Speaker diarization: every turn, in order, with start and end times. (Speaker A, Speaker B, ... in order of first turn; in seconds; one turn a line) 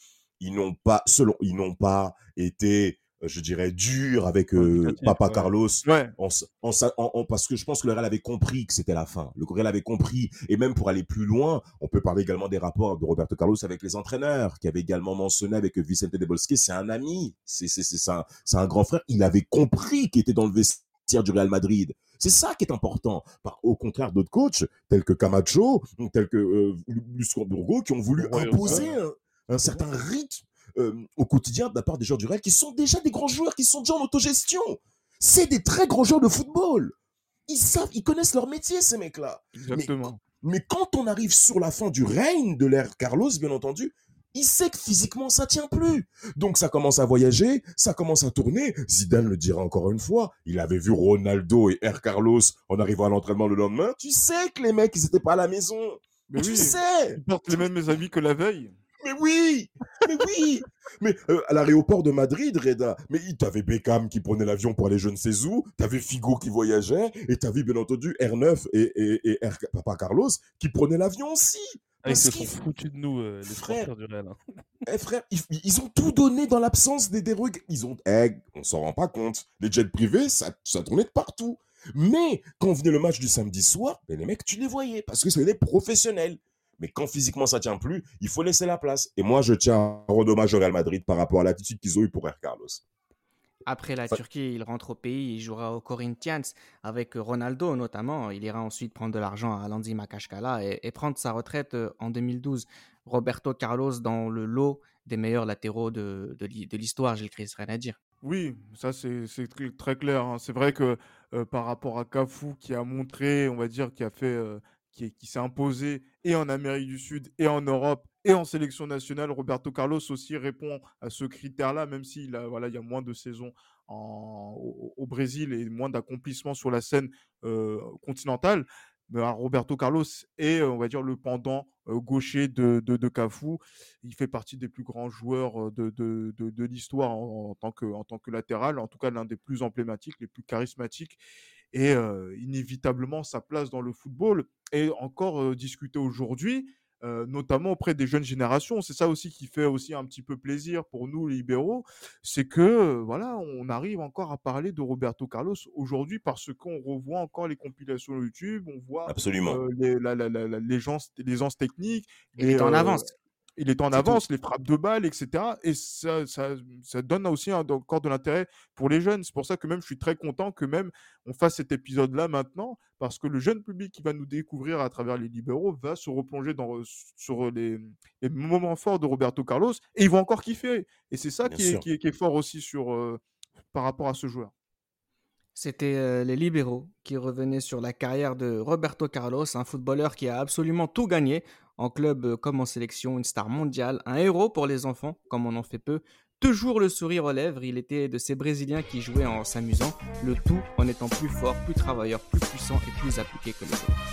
Speaker A: 0.4-36.9
Speaker B: 4.6-5.5
Speaker C: 5.8-6.1
Speaker C: 28.2-28.9
Speaker B: 28.3-28.9
Speaker A: 37.5-57.6
Speaker C: 39.6-40.2
Speaker C: 56.3-58.7
Speaker A: 59.0-72.6
Speaker B: 72.0-74.4
Speaker A: 73.5-73.9
Speaker A: 74.8-92.8
Speaker D: 93.7-108.0
Speaker C: 108.2-141.2
Speaker C: 141.7-163.0
Speaker A: 159.1-159.6
Speaker D: 162.4-163.0
Speaker C: 163.6-183.2
Speaker A: 181.4-181.8
Speaker C: 183.7-184.5
Speaker D: 185.6-204.0